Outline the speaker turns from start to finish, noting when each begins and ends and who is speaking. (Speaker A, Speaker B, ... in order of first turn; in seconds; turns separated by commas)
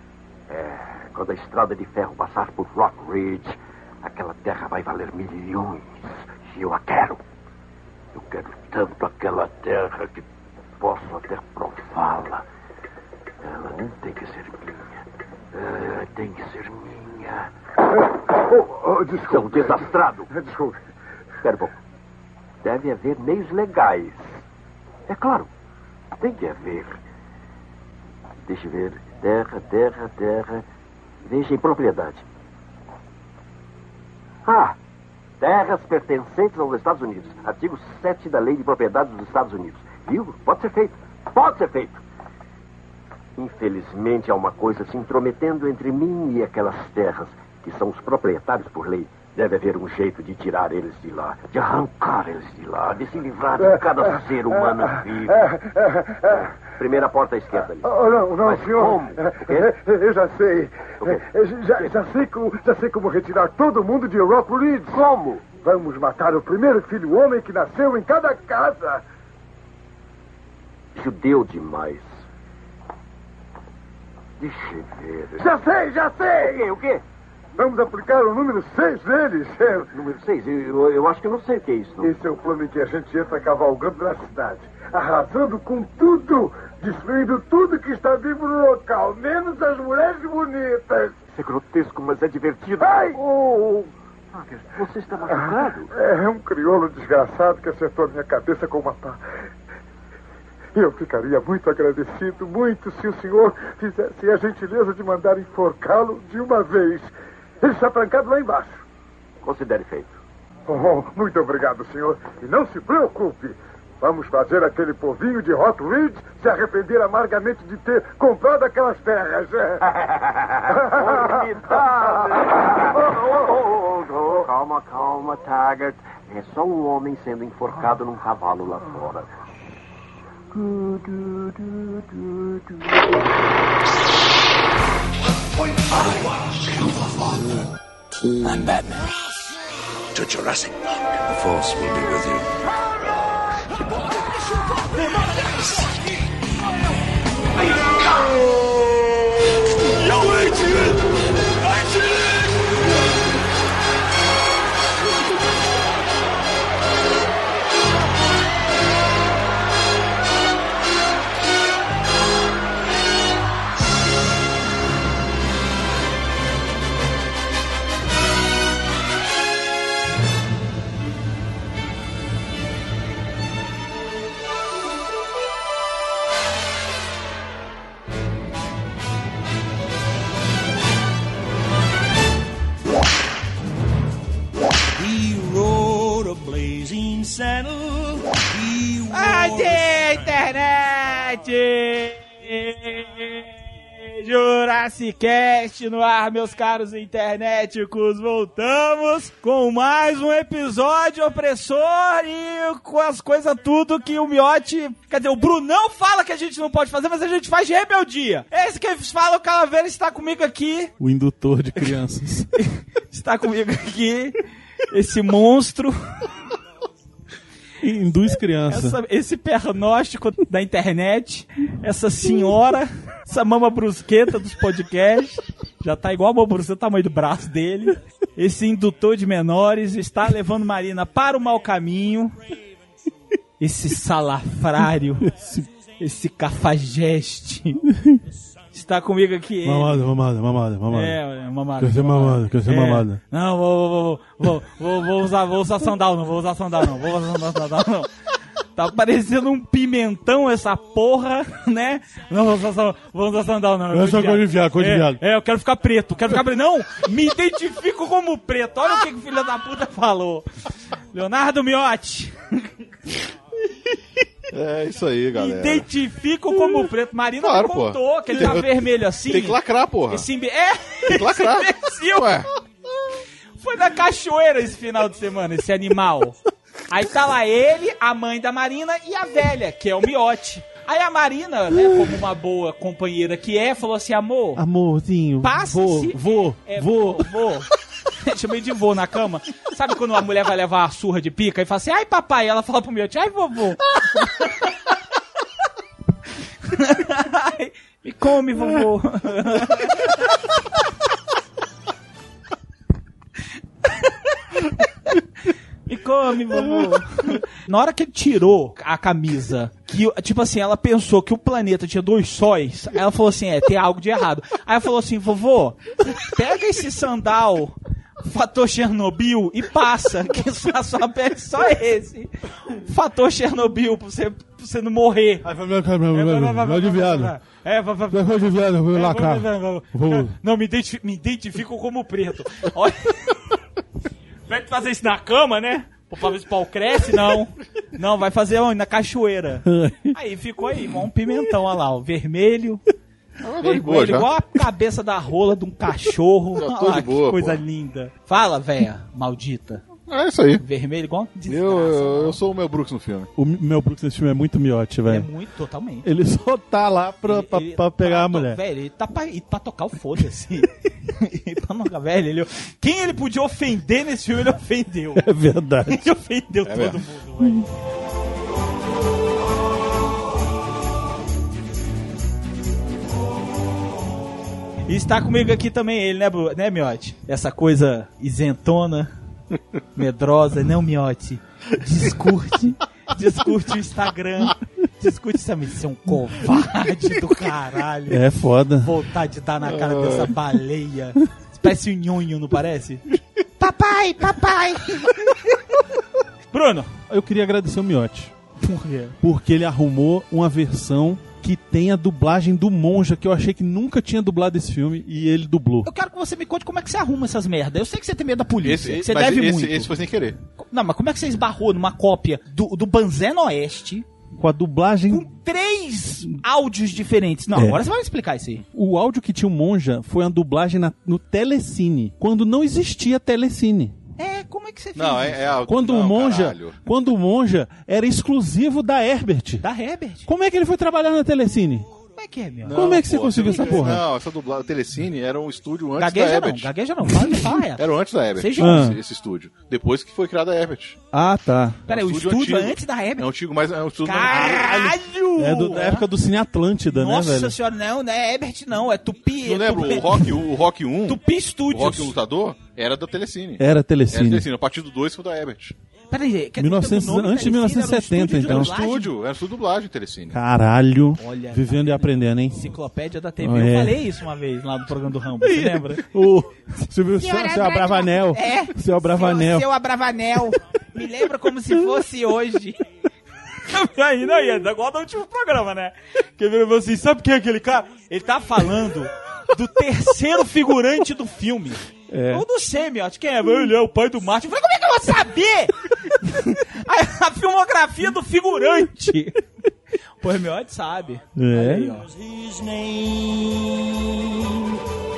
Speaker A: 0.5-7.2, Speaker A: 8.1-10.2, Speaker A: 10.8-12.4, Speaker A: 13.4-15.0, Speaker A: 15.5-17.5, Speaker B: 18.1-20.8, Speaker A: 19.1-20.3, Speaker A: 21.4-21.7, Speaker A: 22.6-24.4, Speaker A: 25.1-25.5, Speaker A: 26.2-27.0, Speaker A: 28.4-30.6, Speaker A: 31.2-32.2, Speaker A: 34.4-34.8, Speaker A: 35.4-42.0, Speaker A: 43.4-55.5, Speaker B: 53.6-56.6, Speaker A: 56.8-59.7, Speaker B: 57.8-65.0, Speaker A: 64.9-65.5, Speaker B: 65.6-69.0, Speaker A: 70.9-72.2, Speaker A: 74.4-75.5, Speaker B: 75.4-76.6, Speaker A: 76.2-77.0, Speaker B: 77.6-79.9, Speaker A: 79.9-82.1, Speaker B: 82.0-91.2, Speaker A: 91.3-95.9, Speaker B: 92.8-93.8, Speaker B: 95.3-99.2, Speaker B: 100.8-107.1, Speaker B: 107.6-108.8, Speaker A: 109.4-110.2, Speaker B: 110.7-119.8, Speaker A: 120.7-129.4, Speaker B: 120.7-123.0, Speaker C: 140.2-140.7, Speaker C: 141.4-142.0, Speaker D: 150.2-150.9, Speaker C: 185.0-189.8, Speaker D: 189.1-210.9, Speaker E: 211.0-212.5, Speaker D: 212.6-214.4, Speaker D: 214.9-216.0, Speaker E: 217.8-219.0, Speaker D: 218.7-232.4, Speaker D: 233.6-235.3, Speaker E: 235.2-235.7, Speaker D: 236.0-237.8, Speaker D: 238.7-240.0, Speaker E: 239.6-241.2, Speaker D: 240.9-248.1, Speaker E: 241.8-243.2, Speaker D: 248.7-260.5, Speaker E: 253.9-255.2, Speaker D: 261.1-263.1, Speaker F: 264.5-265.9, Speaker D: 265.4-272.4, Speaker F: 267.4-270.2, Speaker F: 271.1-272.5, Speaker D: 273.6-276.4, Speaker D: 276.9-284.6, Speaker E: 284.6-287.3, Speaker D: 285.4-287.7, Speaker D: 288.2-294.7, Speaker D: 296.6-300.5, Speaker D: 303.9-304.3, Speaker D: 305.9-325.5, Speaker E: 325.4-327.3, Speaker D: 326.1-333.4, Speaker E: 328.1-330.3, Speaker D: 334.5-342.8, Speaker E: 339.6-340.1, Speaker F: 343.4-344.3, Speaker D: 343.6-349.8, Speaker F: 346.6-347.6, Speaker F: 350.1-350.6, Speaker D: 350.6-352.4, Speaker F: 351.5-353.3, Speaker E: 353.4-355.3, Speaker D: 355.1-356.1, Speaker E: 356.0-358.6, Speaker D: 357.2-365.3, Speaker E: 365.1-366.0, Speaker D: 365.9-367.6, Speaker F: 366.6-367.0, Speaker D: 374.9-379.1, Speaker D: 379.9-388.2, Speaker E: 388.1-388.9, Speaker D: 388.8-393.1, Speaker F: 389.6-390.3, Speaker D: 393.6-395.8, Speaker D: 396.5-396.9, Speaker E: 397.1-398.3, Speaker D: 398.6-399.1, Speaker E: 399.2-405.9, Speaker D: 405.8-409.9, Speaker F: 408.6-410.4, Speaker D: 410.6-414.1, Speaker E: 414.4-415.3, Speaker D: 415.1-418.6, Speaker E: 417.5-417.8, Speaker E: 418.7-423.9, Speaker D: 424.2-425.6, Speaker F: 424.9-426.8, Speaker E: 425.7-429.6, Speaker D: 429.6-430.3, Speaker E: 430.2-431.9, Speaker D: 432.1-432.8, Speaker F: 432.6-436.7, Speaker E: 432.7-434.1, Speaker D: 433.4-433.9, Speaker D: 436.0-439.0, Speaker F: 437.8-441.0, Speaker E: 438.6-439.0, Speaker E: 441.1-441.8, Speaker D: 441.9-443.3, Speaker F: 441.9-444.8, Speaker D: 444.0-446.1, Speaker E: 444.2-447.5, Speaker D: 446.9-450.3, Speaker F: 449.4-455.7, Speaker D: 451.1-452.1, Speaker E: 453.6-454.4, Speaker D: 456.1-459.1, Speaker E: 456.6-458.8, Speaker F: 458.4-460.3, Speaker E: 460.3-462.6, Speaker D: 461.2-466.0, Speaker E: 463.4-464.0, Speaker E: 465.4-469.7, Speaker D: 467.1-472.8, Speaker D: 473.6-489.4, Speaker E: 482.1-482.4, Speaker D: 490.2-492.1, Speaker E: 491.4-491.9, Speaker C: 492.0-494.6